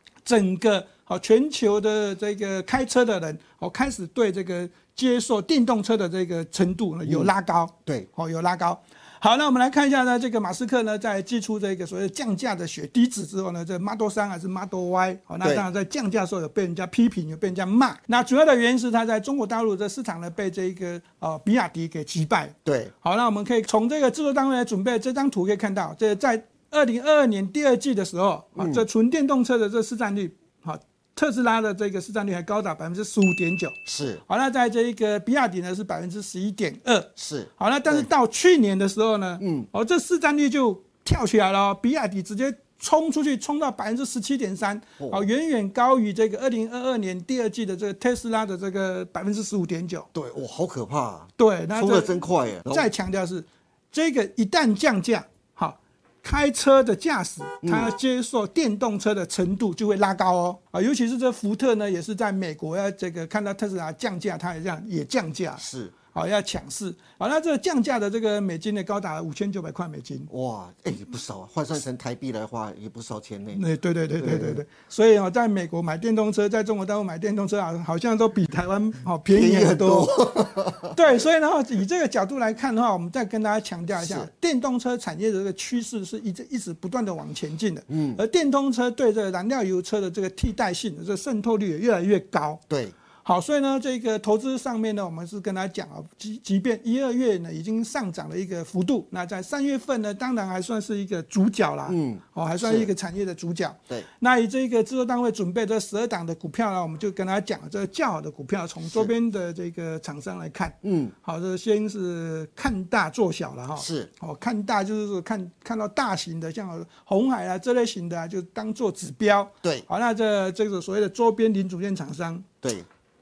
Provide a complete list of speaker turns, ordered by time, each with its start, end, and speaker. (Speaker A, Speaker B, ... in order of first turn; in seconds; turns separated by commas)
Speaker A: 0.3-50.1, Speaker B: 7.0-7.3, Speaker B: 22.6-22.9, Speaker B: 28.6-28.9, Speaker B: 33.9-34.2, Speaker B: 37.2-38.1, Speaker B: 39.4-39.7, Speaker B: 45.0-45.3, Speaker B: 50.1-52.9, Speaker A: 51.4-65.6, Speaker B: 57.6-57.9, Speaker B: 65.6-65.9, Speaker A: 66.1-70.3, Speaker B: 70.3-73.6, Speaker A: 73.5-80.1, Speaker B: 74.2-74.6, Speaker B: 79.3-81.0, Speaker A: 80.9-92.6, Speaker B: 83.9-84.3, Speaker B: 87.9-88.2, Speaker B: 92.7-92.9, Speaker A: 93.2-122.5, Speaker B: 101.9-102.9, Speaker B: 108.8-109.1, Speaker B: 110.8-111.1, Speaker B: 113.8-114.1